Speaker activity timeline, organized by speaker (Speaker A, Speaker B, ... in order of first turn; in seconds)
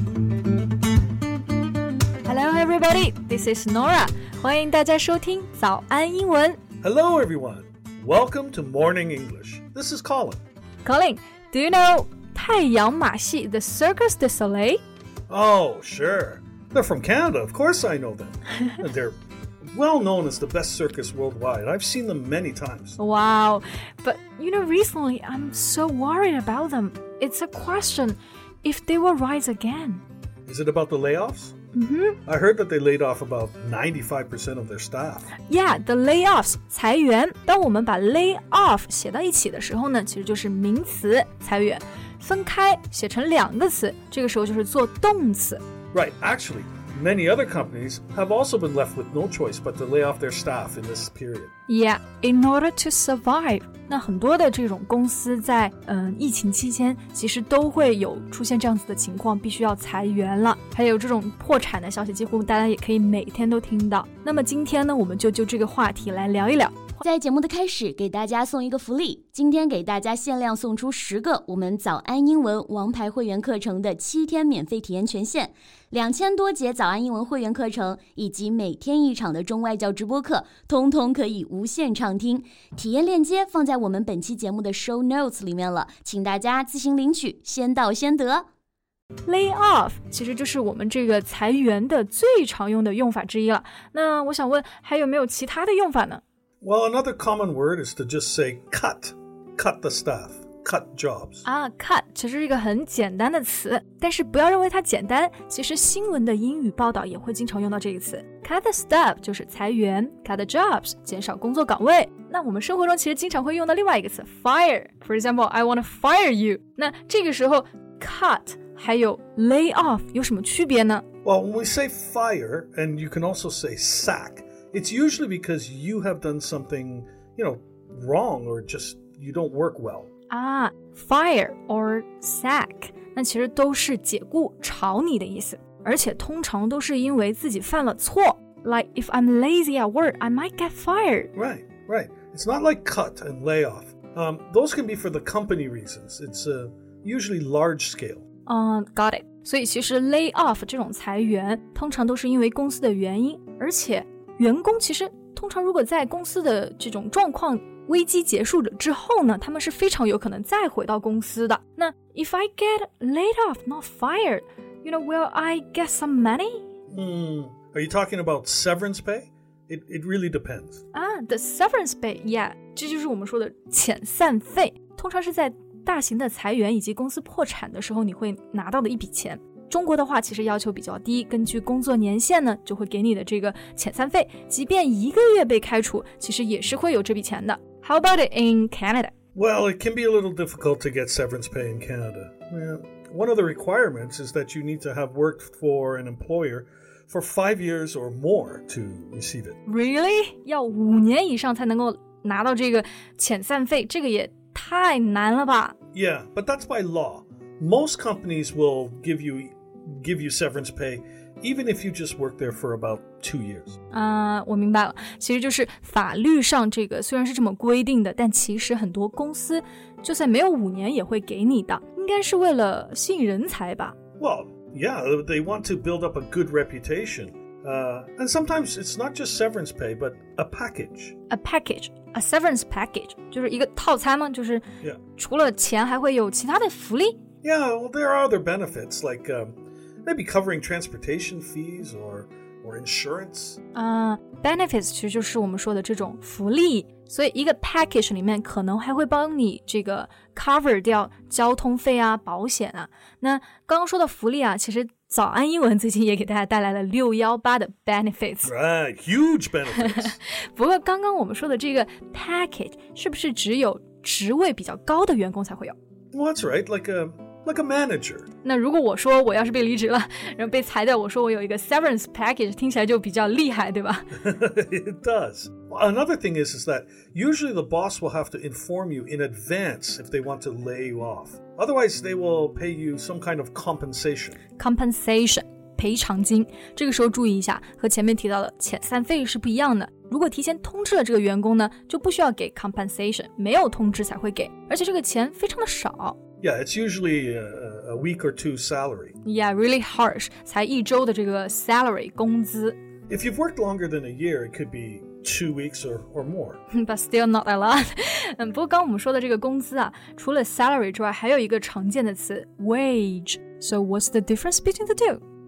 Speaker A: 2.2-6.6, 10.8-14.8, 23.0-30.0, 31.7-32.2, 35.5-45.6, 51.7-67.0, 89.2-96.2, 101.4-121.0, 130.3-141.3, 148.5-166.7, 170.9-189.1, 199.7-205.7, 213.9-223.9, 231.3-234.6, 235.2-237.2, 243.7-258.5, 259.8-265.8, 268.4-274.2, 284.6-296.2, 299.2-302.8, 306.7-315.2
Speaker B: 6.8-10.4, 15.3-19.1, 19.7-23.0, 30.4-31.6, 32.2-35.3, 45.9-51.5, 96.6-101.4, 121.2-130.1, 141.3-148.2, 166.9-170.8, 189.3-199.6, 205.9-213.8, 224.2-231.2, 237.4-243.6, 258.4-260.2, 266.1-268.3, 274.1-284.4, 296.4-299.2, 303.1-306.6
Speaker C: 67.0-88.4